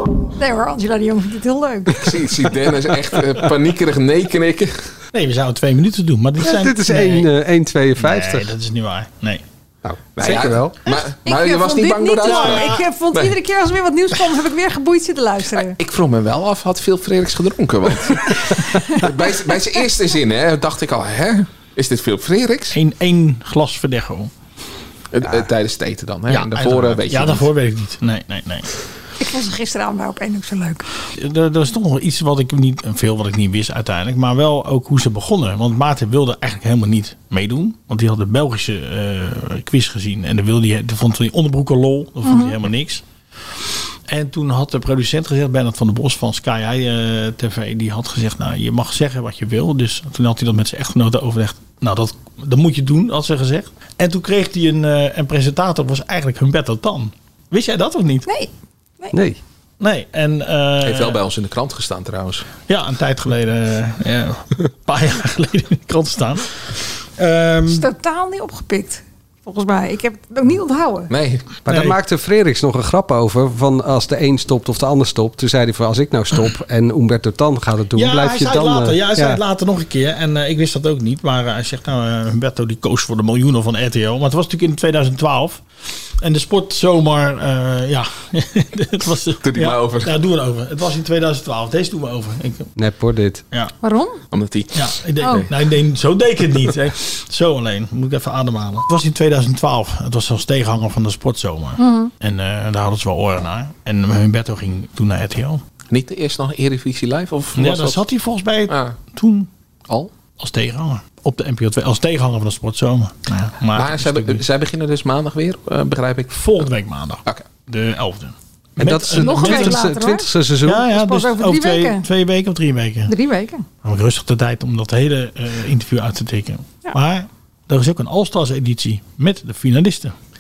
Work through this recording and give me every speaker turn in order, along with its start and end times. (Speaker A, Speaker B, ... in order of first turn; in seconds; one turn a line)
Speaker A: 0.4-2.0
Speaker B: 1.9-4.8
Speaker C: 5.1-7.3
Speaker D: 6.4-8.5
Speaker C: 8.0-9.4
Speaker D: 9.8-10.7
Speaker B: 10.2-13.3
Speaker A: 11.2-15.8
Speaker C: 12.2-12.8
Speaker B: 15.6-22.8
Speaker C: 22.7-24.3
Speaker B: 25.1-27.5
Speaker C: 26.3-28.7
Speaker A: 29.2-30.9
Speaker C: 31.1-43.0
Speaker A: 42.2-42.5
Speaker C: 44.1-58.2
Speaker A: 58.3-59.1
Speaker D: 59.1-59.4
Speaker C: 59.8-61.2
Speaker B: 60.8-62.5
Speaker C: 62.7-67.8
Speaker A: 67.7-71.1
Speaker B: 71.1-71.5
Speaker D: 71.7-79.4
Speaker C: 71.7-72.0
Speaker C: 77.9-85.6
Speaker C: 86.2-92.7
Speaker B: 89.4-90.1
Speaker D: 92.8-93.4
Speaker A: 93.8-94.2
Speaker B: 94.3-95.5
Speaker C: 94.7-105.6
Speaker A: 95.2-95.5
Speaker A: 101.8-102.1
Speaker B: 105.9-108.0
Speaker C: 107.5-109.5
Speaker B: 108.7-109.0
Speaker C: 110.4-114.4
Speaker B: 113.7-116.6
Speaker C: 116.3-119.9
Speaker D: 118.8-120.8
Speaker A: 119.2-120.3
Speaker C: 120.6-123.1
Speaker A: 120.9-122.0
Speaker A: 123.1-123.7
Speaker C: 123.8-130.1